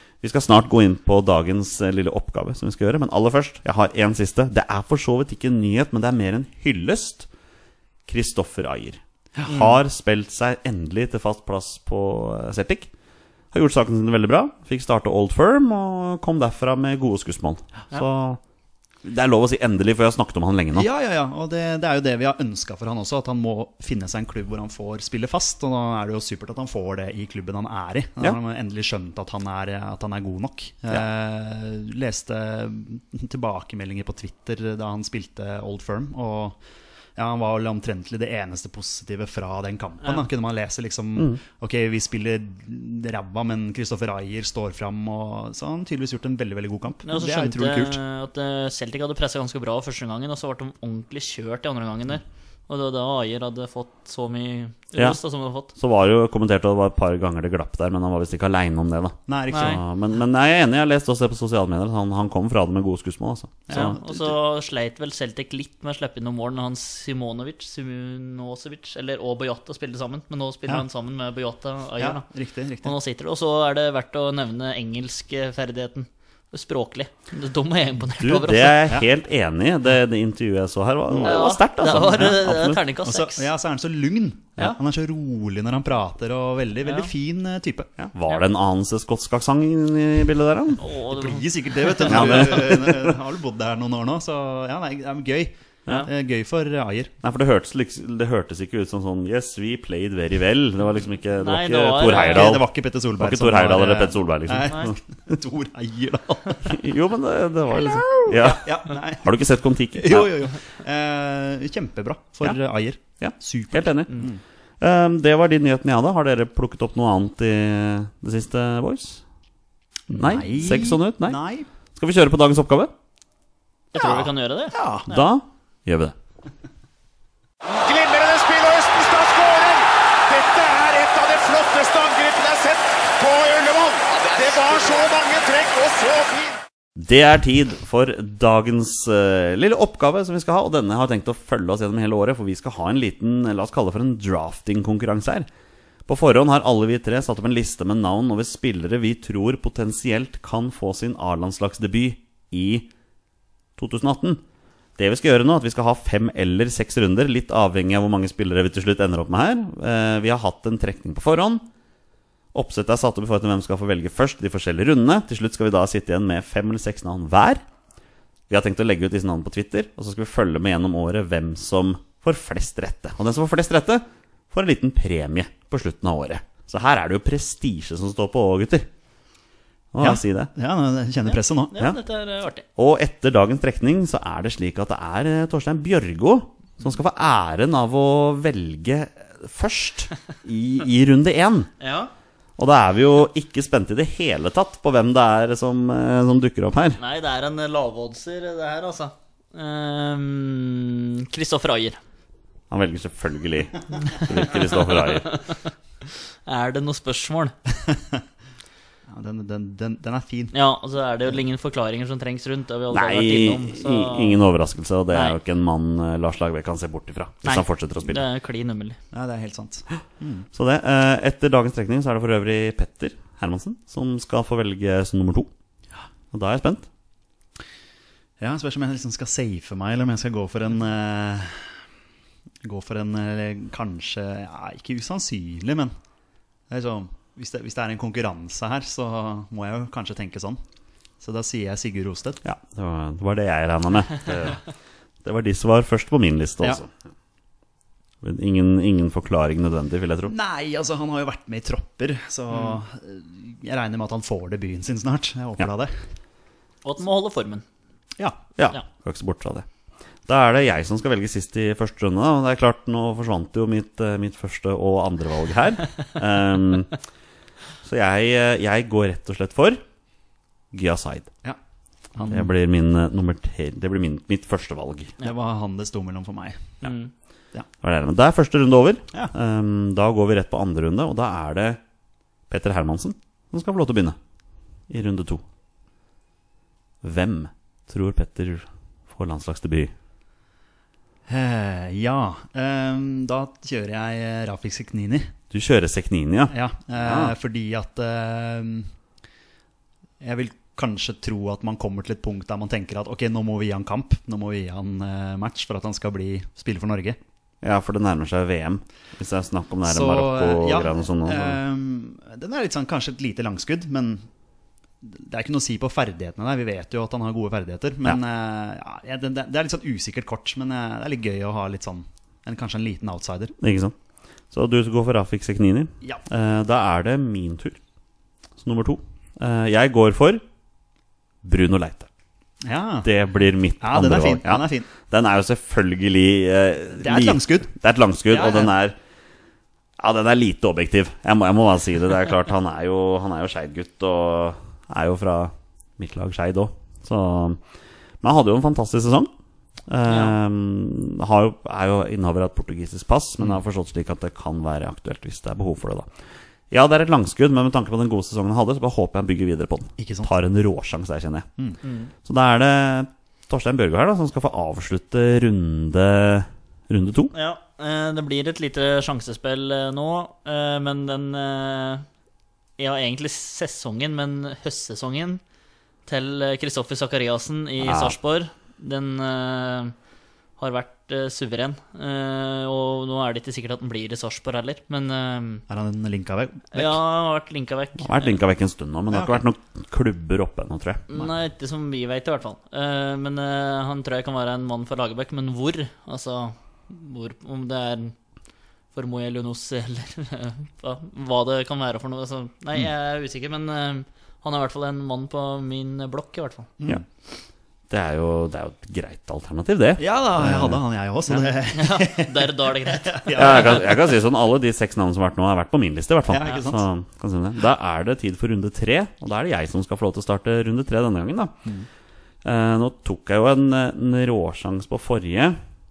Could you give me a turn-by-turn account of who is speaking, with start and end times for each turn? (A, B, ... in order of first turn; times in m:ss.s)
0:00.2-0:07.3 A
0:08.1-0:12.9 A
0:13.5-0:18.4 A
0:19.0-0:20.9 A
0:20.7-0:36.6 B
0:37.2-0:48.0 B
0:47.0-0:55.7 C
0:55.7-1:04.0 A
0:59.3-0:59.8 B
0:59.5-0:59.8 C
1:03.7-1:04.2 B
1:03.7-1:12.2 C
1:12.0-1:12.9 B
1:12.8-1:18.8 C
1:18.2-1:22.8 A
1:21.2-1:23.5 C
1:23.0-1:27.9 B
1:26.8-1:27.1 C
1:28.0-1:30.8 A
1:30.8-1:32.5 C
1:31.1-1:37.1 B
1:32.1-1:33.1 A
1:37.2-1:44.9 A
1:41.4-1:42.6 C
1:42.1-1:46.7 B
1:46.6-1:50.4 A
1:47.9-1:49.3 B
1:50.0-1:54.4 B
1:53.2-1:54.2 A
1:54.8-1:59.2 A
2:00.1-2:01.7 B
2:00.1-2:01.4 A
2:02.0-2:02.9 A
2:03.9-2:05.2 C
2:04.0-2:05.1 B
2:05.1-2:06.1 A
2:07.6-2:16.6 D
2:17.0-2:25.5 A
2:26.1-2:32.9 A
2:33.8-2:34.4 A
2:35.0-2:41.6 A
2:42.5-2:47.6 A
2:48.5-2:58.9 A
2:59.9-3:00.5 A
3:00.0-3:01.8 B
3:01.3-3:02.6 C
3:02.8-3:11.7 A
3:11.8-3:12.1 C
3:12.6-3:17.0 A
3:17.0-3:22.0 C
3:22.7-3:25.3 A
3:24.9-3:25.7 C
3:26.4-3:27.5 C
3:29.1-3:30.5 B
3:30.5-3:34.4 C
3:32.9-3:38.2 A
3:35.1-3:35.4 C
3:37.4-3:39.0 C
3:39.1-3:40.4 B
3:40.5-3:45.5 A
3:46.3-3:46.9 A
3:48.4-3:51.7 B
3:52.6-3:55.9 B
3:56.7-4:00.6 B
4:01.2-4:02.4 B
4:02.4-4:04.6 A
4:05.2-4:06.9 A
4:08.2-4:10.3 A
4:10.3-4:15.9 B
4:16.8-4:17.6 C
4:18.6-4:19.6 A
4:20.2-4:26.9 A
4:27.8-4:29.8 A
4:30.7-4:31.3 A
4:32.1-4:32.5 B
4:32.3-4:35.1 A
4:35.2-4:36.8 B
4:36.8-4:37.1 C
4:37.8-4:41.8 A
4:42.5-4:44.2 A
4:44.9-4:45.4 A
4:47.0-4:49.9 A
4:51.3-4:55.3 B
4:55.5-4:57.3 A
4:56.5-4:58.9 B
5:00.2-5:07.2 B
5:07.6-5:11.6 A
5:09.8-5:14.2 B
5:15.0-5:23.5 B
5:23.6-5:23.9 A
5:24.5-5:27.8 A
5:28.6-5:30.4 A
5:31.4-5:32.1 A
5:32.6-5:33.1 B
5:33.0-5:39.0 A
5:33.8-5:34.9 B
5:37.0-5:37.7 B
5:38.3-5:38.7 B
5:40.0-5:47.6 A
5:48.2-5:49.3 A
5:49.9-5:56.1 A
5:50.1-5:50.3 C
5:56.7-6:01.5 A
6:00.0-6:00.3 B
6:01.8-6:02.1 C
6:02.2-6:07.3 A
6:07.3-6:12.0 C
6:12.8-6:15.4 C
6:16.1-6:19.9 C
6:17.8-6:18.2 A
6:20.6-6:25.6 C
6:25.7-6:26.9 B
6:26.7-6:28.3 C
6:28.0-6:31.2 A
6:29.1-6:29.4 B
6:31.1-6:38.1 C
6:38.9-6:46.7 C
6:47.9-6:50.8 A
6:50.0-6:54.0 B
6:51.4-6:53.8 C
6:53.3-7:01.5 A
6:56.3-6:56.8 B
7:02.4-7:05.6 A